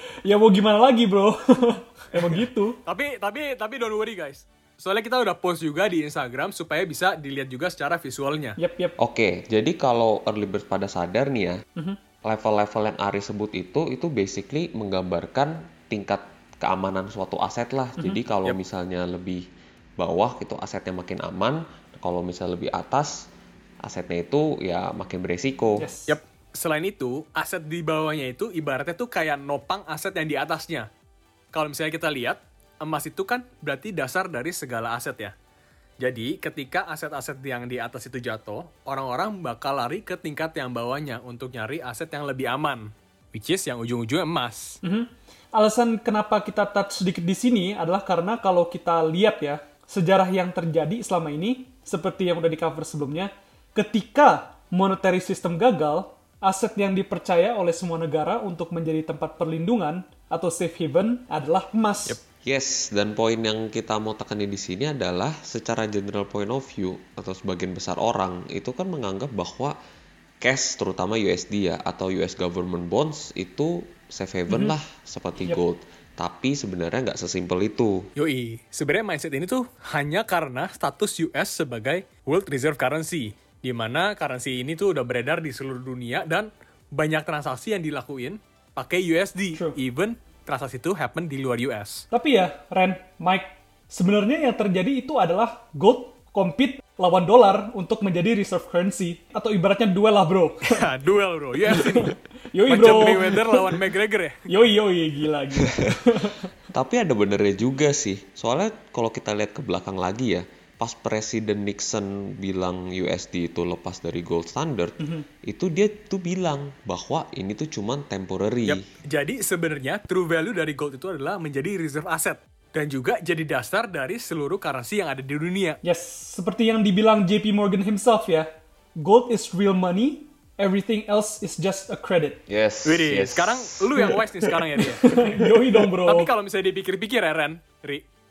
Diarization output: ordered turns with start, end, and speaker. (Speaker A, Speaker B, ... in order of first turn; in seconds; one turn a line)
Speaker A: 0.2-2.8
Speaker B: 2.9-8.6
Speaker A: 8.6-9.0
Speaker C: 9.0-11.6
Speaker C: 12.2-19.5
Speaker A: 18.0-18.2
Speaker C: 20.0-23.3
Speaker C: 23.8-25.9
Speaker A: 25.8-26.2
Speaker B: 26.1-30.9
Speaker B: 31.5-35.3
Speaker B: 36.0-44.8
Speaker A: 44.8-62.2
Speaker C: 62.4-69.8
Speaker C: 70.4-78.1
Speaker A: 74.5-74.8
Speaker B: 78.2-92.0
Speaker A: 92.1-100.8
Speaker B: 100.7-102.2
Speaker A: 101.7-103.8
Speaker B: 102.7-104.4
Speaker A: 104.5-106.5
Speaker C: 106.7-118.8
Speaker B: 118.7-125.8
Speaker A: 125.8-132.4
Speaker C: 132.5-134.1
Speaker B: 132.8-135.2
Speaker A: 134.8-136.3
Speaker B: 135.8-138.1